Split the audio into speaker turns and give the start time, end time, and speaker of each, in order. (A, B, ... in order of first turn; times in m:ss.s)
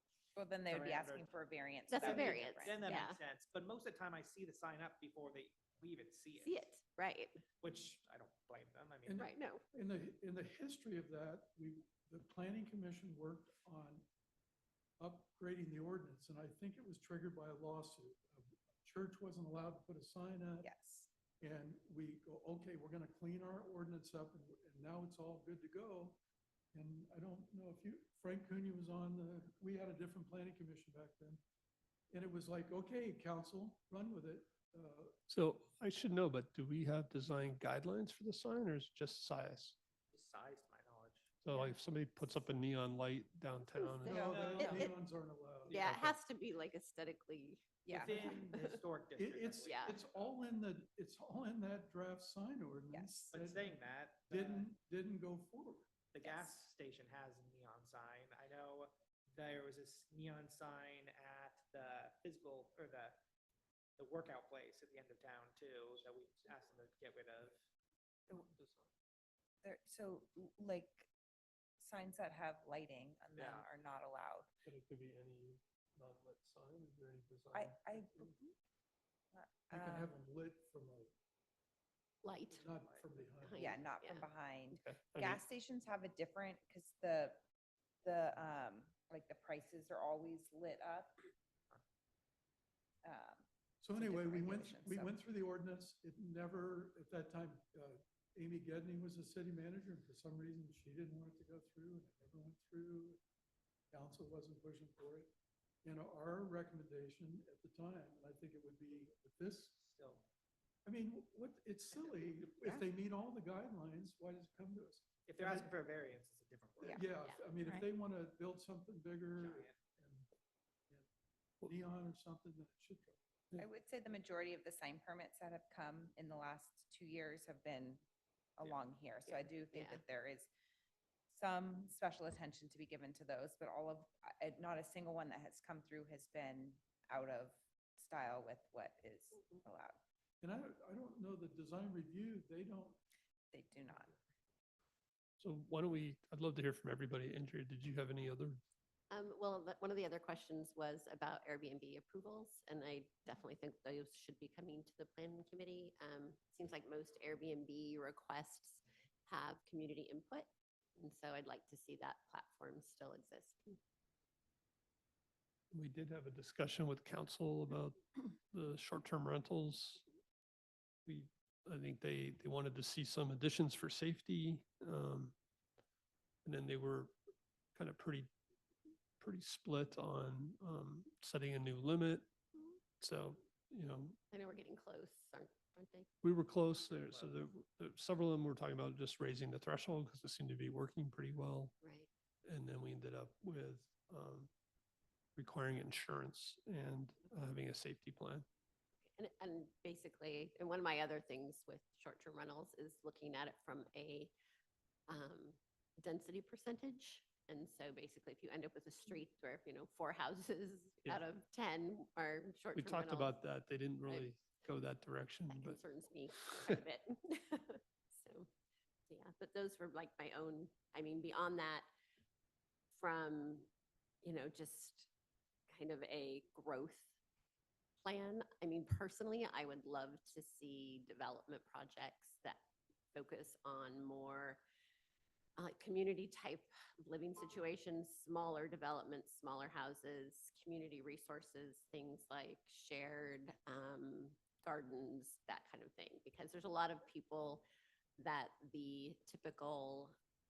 0:00.3-0:02.8 A
0:00.7-0:01.3 B
0:01.9-0:03.2 C
0:01.9-0:06.6 B
0:06.4-0:07.4 C
0:07.6-0:09.3 B
0:09.0-0:14.0 D
0:09.2-0:09.6 C
0:15.0-0:20.7 D
0:20.6-0:21.1 A
0:21.4-0:26.2 D
0:26.7-0:31.4 D
0:32.1-0:35.1 D
0:35.3-0:39.8 E
0:40.1-0:41.3 B
0:41.4-0:44.5 E
0:43.7-0:44.9 C
0:44.0-0:45.9 D
0:44.1-0:44.9 A
0:44.2-0:44.9 B
0:45.7-0:46.0 B
0:45.7-0:48.8 C
0:47.8-0:48.4 A
0:47.9-0:50.3 B
0:47.9-0:48.6 D
0:49.2-0:55.9 D
0:49.6-0:50.0 C
0:52.9-0:53.3 A
0:53.3-0:54.7 B
0:56.1-1:03.2 B
0:56.2-0:56.5 A
1:04.0-1:07.6 B
1:08.3-1:08.9 E
1:09.6-1:11.1 A
1:11.8-1:14.5 A
1:13.4-1:13.7 B
1:14.6-1:18.3 E
1:17.5-1:18.5 A
1:19.3-1:20.1 A
1:19.7-1:21.1 D
1:22.2-1:22.7 C
1:22.5-1:23.1 B
1:22.6-1:23.8 D
1:23.4-1:24.3 C
1:23.6-1:27.4 A
1:24.7-1:25.4 E
1:28.0-1:31.2 A
1:33.0-1:35.1 A
1:33.8-1:43.2 D
1:43.9-1:45.3 D
1:45.8-1:49.7 D
1:49.8-1:50.3 B
1:50.8-1:55.7 D
1:55.3-1:57.0 B
1:56.9-2:00.3 D
1:59.4-1:59.7 B
2:01.6-2:03.6 D
2:03.6-2:08.0 A
2:08.6-2:10.5 A
2:09.3-2:10.0 C
2:11.3-2:20.0 A
2:20.4-2:23.0 D
2:23.5-2:24.1 A
2:25.4-2:28.6 E
2:29.1-2:43.8 C
2:45.7-2:50.0 E
2:51.0-2:55.3 E
2:56.4-2:57.1 E
2:57.7-2:58.3 E
2:59.2-3:02.3 E
3:03.0-3:04.2 E
3:04.3-3:06.1 C
3:06.2-3:11.7 E
3:06.9-3:07.4 B
3:11.8-3:12.1 C
3:12.4-3:14.5 E
3:15.4-3:18.4 E
3:19.0-3:24.3 C
3:25.1-3:33.4 C
3:32.7-3:35.8 E
3:34.0-3:34.6 C
3:35.5-3:38.5 C
3:36.5-3:36.8 E
3:39.1-3:41.9 C
3:42.9-3:43.7 C
3:44.2-3:45.1 C
3:45.7-3:47.1 C
3:48.0-3:52.6 C
3:53.1-3:54.6 C
3:55.6-4:07.6 C
4:08.2-4:10.2 C